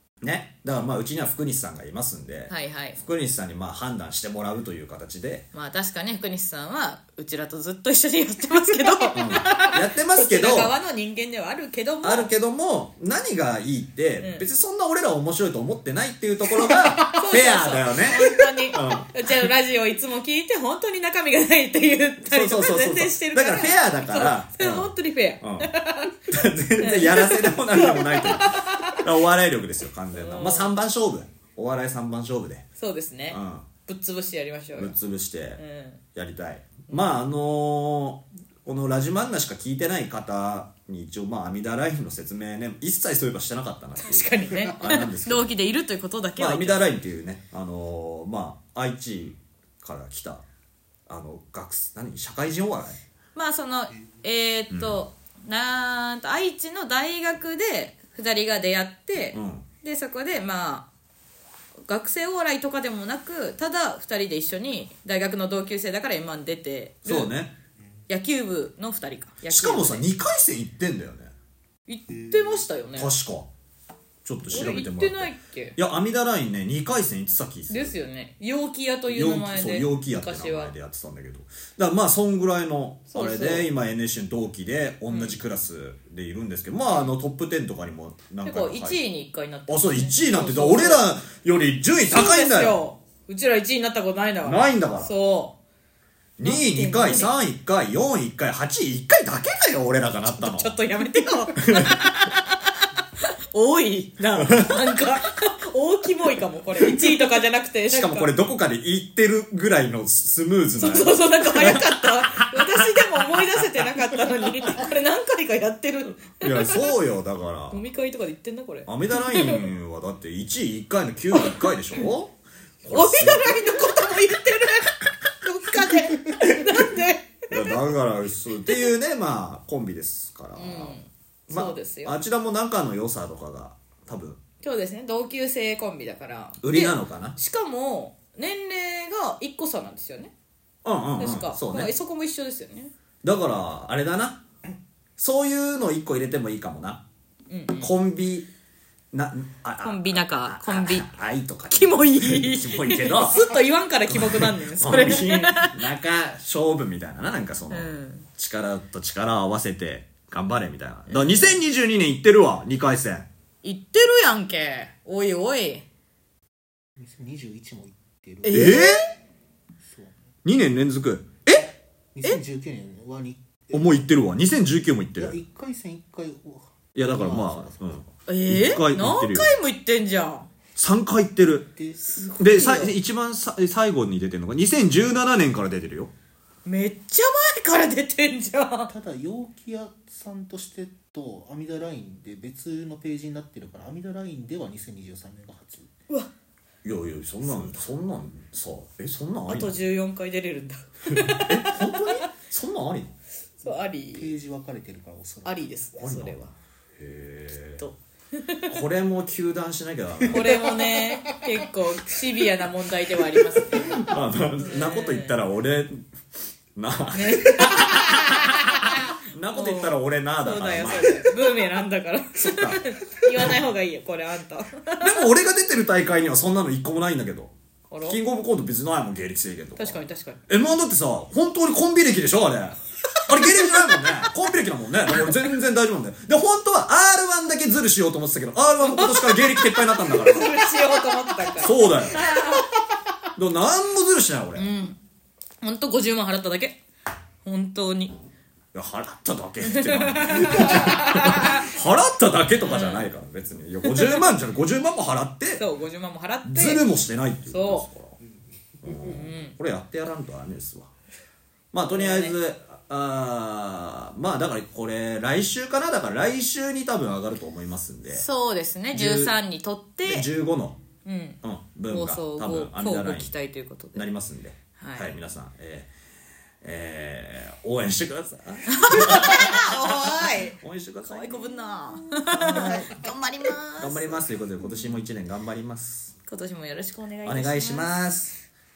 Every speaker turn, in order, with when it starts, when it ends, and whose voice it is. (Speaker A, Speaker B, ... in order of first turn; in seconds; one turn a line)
Speaker A: 0.2-5.5
Speaker B: 2.5-3.0
Speaker B: 5.5-12.3
Speaker A: 9.1-10.8
Speaker A: 12.0-19.5
Speaker B: 14.2-14.4
Speaker B: 16.6-26.2
Speaker A: 22.2-25.7
Speaker A: 26.3-32.7
Speaker B: 26.8-29.1
Speaker B: 30.1-30.7
Speaker B: 32.8-35.0
Speaker A: 33.3-33.7
Speaker A: 34.8-35.6
Speaker B: 35.6-36.0
Speaker A: 36.1-45.5
Speaker B: 44.0-46.8
Speaker A: 46.4-50.4
Speaker A: 51.1-53.0
Speaker B: 53.3-60.9
Speaker A: 54.7-55.0
Speaker A: 59.3-59.6
Speaker B: 61.9-67.3
Speaker A: 67.0-67.5
Speaker B: 68.1-70.1
Speaker A: 69.5-71.3
Speaker B: 71.9-73.1
Speaker C: 72.1-72.5
Speaker A: 72.9-73.5
Speaker A: 74.2-78.0
Speaker B: 74.5-75.8
Speaker B: 77.7-80.7
Speaker A: 79.1-89.0
Speaker B: 83.1-83.7
Speaker B: 85.1-85.4
Speaker B: 88.4-91.1
Speaker A: 89.7-92.8
Speaker B: 92.1-95.6
Speaker A: 94.4-95.1
Speaker A: 96.4-100.8
Speaker B: 96.4-97.3
Speaker B: 100.2-102.5
Speaker A: 101.6-102.3
Speaker B: 103.2-108.3
Speaker A: 104.4-105.0
Speaker A: 106.8-107.1
Speaker A: 107.9-113.7
Speaker B: 110.8-116.8
Speaker A: 116.4-117.8
Speaker B: 117.7-119.7
Speaker A: 118.8-124.0
Speaker B: 122.9-127.8
Speaker A: 126.4-126.8
Speaker A: 127.5-134.4
Speaker B: 130.6-132.2
Speaker B: 134.6-140.3
Speaker A: 136.6-137.3
Speaker A: 140.8-141.9
Speaker B: 141.2-142.9
Speaker A: 143.2-144.4
Speaker A: 145.2-147.0
Speaker B: 147.5-147.9
Speaker A: 147.8-148.5
Speaker A: 149.1-153.5
Speaker B: 149.8-151.1
Speaker B: 151.7-155.8
Speaker A: 154.1-163.3
Speaker B: 157.7-158.3
Speaker B: 161.1-161.6
Speaker B: 163.6-165.8
Speaker C: 167.0-168.8
Speaker B: 168.4-169.1
Speaker A: 168.5-169.0
Speaker C: 169.8-170.2
Speaker A: 170.4-171.7
Speaker C: 172.1-174.0
Speaker A: 173.7-175.4
Speaker C: 175.2-178.0
Speaker A: 176.9-179.5
Speaker B: 178.3-180.5
Speaker A: 180.8-181.7
Speaker C: 181.7-182.0
Speaker B: 182.0-182.9
Speaker A: 182.4-186.1
Speaker B: 186.7-188.9
Speaker C: 188.9-195.9
Speaker A: 196.8-199.7
Speaker B: 199.5-202.3
Speaker A: 201.1-203.1
Speaker B: 203.6-204.3
Speaker C: 204.1-205.8
Speaker B: 205.4-206.5
Speaker A: 206.0-206.4
Speaker A: 206.9-207.8
Speaker B: 207.8-208.7
Speaker A: 208.7-210.5
Speaker B: 210.3-214.0
Speaker C: 210.3-211.4
Speaker A: 213.7-216.1
Speaker B: 214.6-215.4
Speaker A: 216.7-221.3
Speaker B: 217.1-225.2
Speaker A: 222.3-222.8
Speaker A: 225.0-227.5
Speaker B: 227.9-228.2
Speaker A: 228.1-240.5
Speaker B: 229.8-230.4
Speaker B: 233.4-234.2
Speaker B: 235.1-235.4
Speaker B: 238.8-242.7
Speaker A: 241.6-242.3
Speaker A: 243.3-244.7
Speaker B: 244.6-245.0
Speaker B: 245.6-246.8
Speaker B: 247.4-248.1
Speaker A: 248.7-255.6
Speaker B: 249.6-251.7
Speaker B: 252.6-253.1
Speaker B: 253.8-254.2
Speaker B: 255.6-256.9
Speaker A: 256.4-258.2
Speaker B: 257.5-257.9
Speaker A: 258.8-260.9
Speaker B: 258.9-259.6
Speaker A: 261.7-268.2
Speaker B: 261.9-262.3
Speaker B: 268.1-270.3
Speaker A: 268.9-269.4
Speaker A: 270.1-270.8
Speaker B: 271.0-274.1
Speaker A: 271.4-273.3
Speaker A: 273.9-275.9
Speaker B: 274.8-275.1
Speaker A: 276.6-281.5
Speaker B: 278.7-285.0
Speaker A: 282.3-283.1
Speaker A: 283.8-286.1
Speaker B: 286.3-287.9
Speaker A: 287.2-288.4